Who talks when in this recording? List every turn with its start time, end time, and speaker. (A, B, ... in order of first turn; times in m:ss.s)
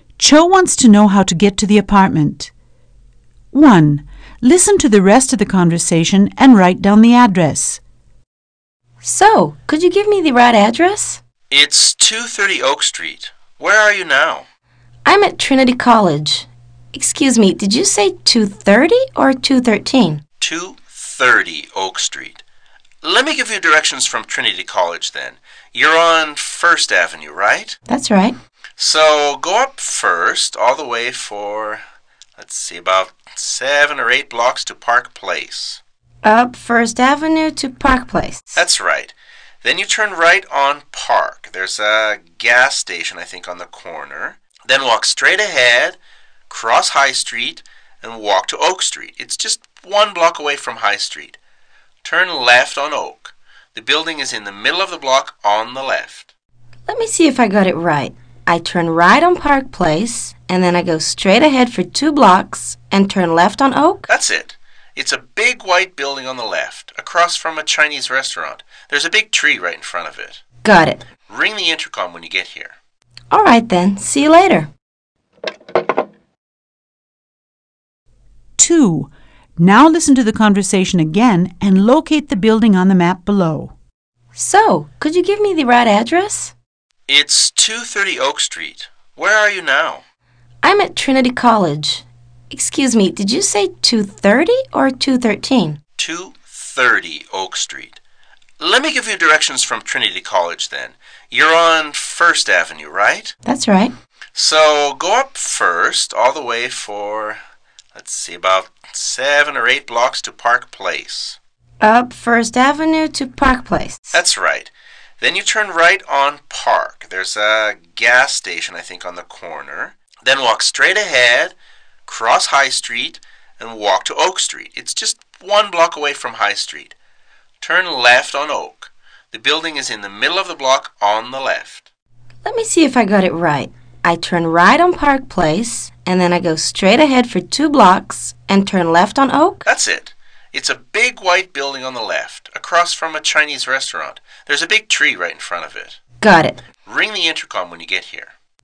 0:00.2-0:02.5 A
0:03.5-0:07.8 A
0:09.0-0:11.2 B
0:11.5-0:14.5 C
0:15.0-0:20.2 B
0:20.4-0:22.4 C
0:23.0-0:27.8 C
0:27.9-0:28.4 B
0:28.8-0:31.8 C
0:32.4-0:35.8 C
0:36.2-0:38.6 B
0:38.6-0:46.0 C
0:46.5-0:51.4 C
0:52.0-0:56.3 C
0:56.9-1:04.1 B
1:04.1-1:10.4 C
1:10.6-1:11.0 B
1:11.3-1:12.8 C
1:13.3-1:14.7 B
1:18.6-1:23.7 A
1:24.3-1:26.5 B
1:27.1-1:30.0 C
1:30.6-1:35.8 B
1:36.0-1:38.0 C
1:38.6-1:43.3 C
1:43.4-1:43.9 B
1:44.3-1:47.4 C
1:47.9-1:51.4 C
1:51.8-1:54.2 B
1:54.1-2:01.6 C
2:02.0-2:06.9 C
2:07.6-2:11.9 C
2:12.4-2:19.7 B
2:19.7-2:26.0 C
2:26.2-2:26.6 B
2:26.8-2:28.3 C